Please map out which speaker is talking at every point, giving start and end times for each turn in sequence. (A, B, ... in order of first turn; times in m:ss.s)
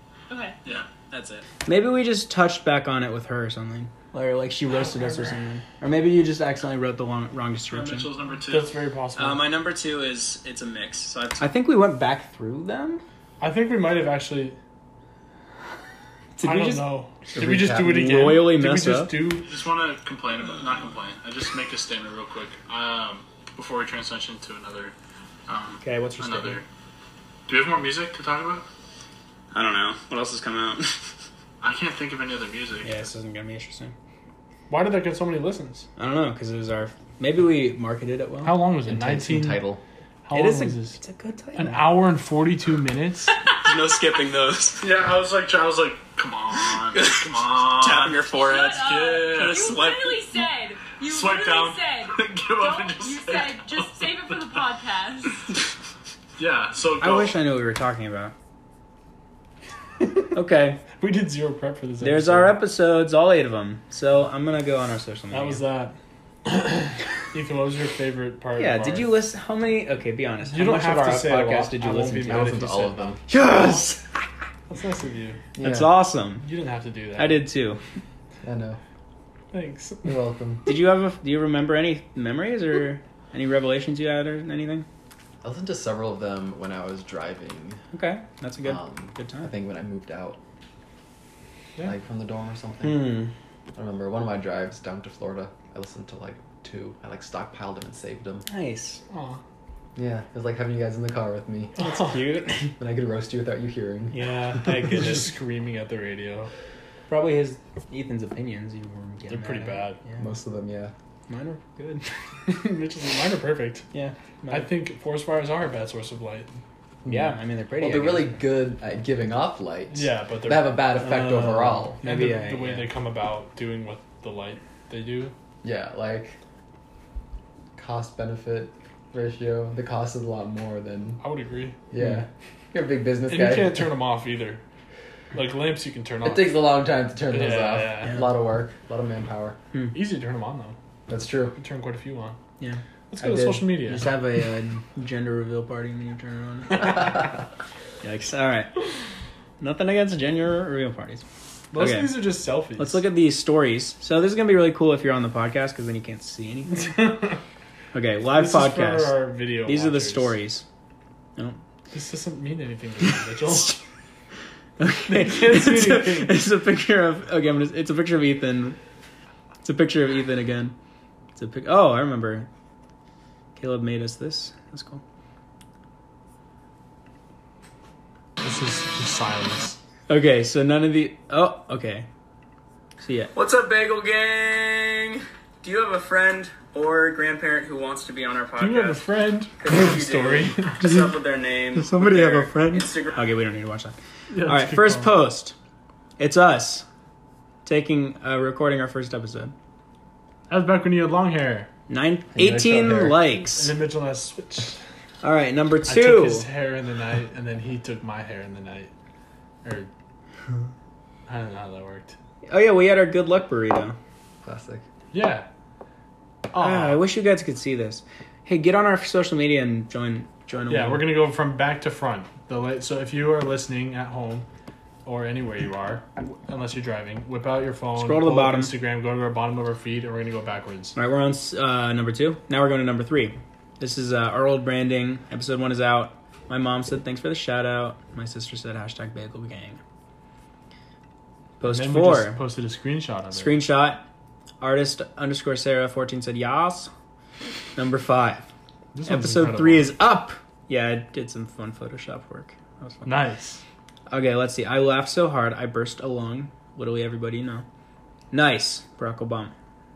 0:00.3-0:00.6 A
0:01.1-0:01.4 B
0:01.6-0:08.1 C
0:04.7-0:05.3 D
0:07.7-0:08.7 E
0:08.5-0:09.6 D
0:11.4-0:13.0 C
0:13.4-0:14.6 D
0:16.4-0:19.2 C
0:16.4-0:19.4 D
0:17.3-0:18.2 F
0:19.4-0:24.9 E
0:25.5-0:26.6 E
0:25.8-0:26.6 C
0:27.5-0:28.6 D
0:27.5-0:28.2 E
0:29.5-0:30.9 C
0:31.6-0:33.0 E
0:32.8-0:33.9 C
0:34.7-0:35.9 D
0:36.0-0:38.6 C
0:38.4-0:39.6 D
0:38.8-0:39.8 F
0:40.2-0:41.0 D
0:40.3-0:41.9 C
0:41.6-0:43.3 D
0:43.6-0:44.8 B
0:44.8-0:49.7 E
0:46.9-0:50.1 B
0:48.2-0:55.5 A
0:51.1-0:51.7 D
0:51.2-0:53.6 E
0:56.4-0:57.3 E
0:57.0-0:58.3 C
1:00.3-1:00.8 C
1:01.0-1:02.6 D
1:02.0-1:05.6 C
1:05.3-1:09.1 D
1:08.6-1:12.5 C
1:10.4-1:13.9 D
1:12.2-1:13.2 F
1:13.3-1:14.0 C
1:14.7-1:15.4 D
1:15.6-1:16.0 F
1:15.6-1:16.4 C
1:16.4-1:17.5 D
1:17.2-1:17.8 C
1:18.4-1:18.8 F
1:19.5-1:20.2 D
1:20.0-1:20.8 F
1:20.6-1:24.8 C
1:25.4-1:27.8 F
1:27.9-1:29.5 C
1:28.6-1:30.4 F
1:31.8-1:33.2 F
1:32.8-1:33.3 C
1:33.7-1:38.4 F
1:38.5-1:39.0 C
1:39.1-1:39.4 D
1:39.9-1:41.8 F
1:41.8-1:42.2 D
1:41.8-1:42.7 C
1:42.8-1:44.7 F
1:44.1-1:45.3 C
1:44.8-1:46.5 D
1:47.1-1:50.3 C
1:49.3-1:50.0 D
1:50.2-1:50.9 F
1:51.3-1:52.1 C
1:52.4-1:53.8 D
1:53.9-1:54.7 C
1:54.5-1:56.5 D
1:57.0-2:02.0 F
1:57.0-1:58.3 C
1:59.9-2:01.2 D
2:01.0-2:02.9 C
2:01.8-2:05.3 D
2:05.6-2:06.4 F
2:07.8-2:11.2 F
2:11.2-2:11.8 D
2:11.9-2:13.9 F
2:12.0-2:12.2 C
2:13.3-2:14.6 D
2:15.3-2:16.6 D
2:16.2-2:19.6 F
2:17.3-2:18.2 D
2:18.0-2:18.3 C
2:19.9-2:20.8 D
2:21.1-2:21.6 F
2:21.5-2:22.4 D
2:22.6-2:27.3 C
2:23.1-2:24.1 D
2:28.0-2:28.7 C
2:29.6-2:31.2 C
2:31.7-2:33.0 D
2:31.7-2:32.2 C
2:32.8-2:37.1 C
2:36.7-2:37.4 D
2:37.9-2:40.6 C
2:38.3-2:40.3 D
2:41.9-2:43.8 D
2:44.8-2:48.8 C
2:45.1-2:46.4 D
2:49.6-2:50.7 C
2:51.3-2:52.5 C
2:53.6-2:55.0 C
2:58.4-2:59.8 D
3:00.1-3:02.1 C
3:03.0-3:03.4 C
3:03.4-3:08.2 B
3:08.6-3:11.1 D
3:08.6-3:08.9 C
3:09.6-3:11.1 C
3:11.0-3:13.1 B
3:11.7-3:15.5 C
3:14.3-3:15.1 D
3:16.2-3:16.8 C
3:17.6-3:19.5 C
3:20.5-3:21.7 D
3:21.9-3:23.7 C
3:22.4-3:22.9 F
3:22.4-3:24.8 D
3:25.2-3:26.5 C
3:25.9-3:28.9 D
3:29.6-3:29.9 D
3:31.3-3:32.2 D
3:32.5-3:34.0 C
3:34.4-3:34.8 F
3:35.1-3:35.5 D
3:36.5-3:37.0 D
3:36.6-3:41.2 C
3:40.7-3:44.4 D
3:45.0-3:51.0 D
3:48.0-3:48.7 C
3:50.9-3:59.8 C
4:01.6-4:02.4 C
4:01.6-4:03.6 D
4:03.3-4:04.0 C
4:04.6-4:06.9 C
4:07.8-4:08.5 C
4:08.9-4:09.9 D
4:09.0-4:13.2 C
4:13.0-4:13.6 D
4:14.1-4:17.6 C
4:18.3-4:19.5 C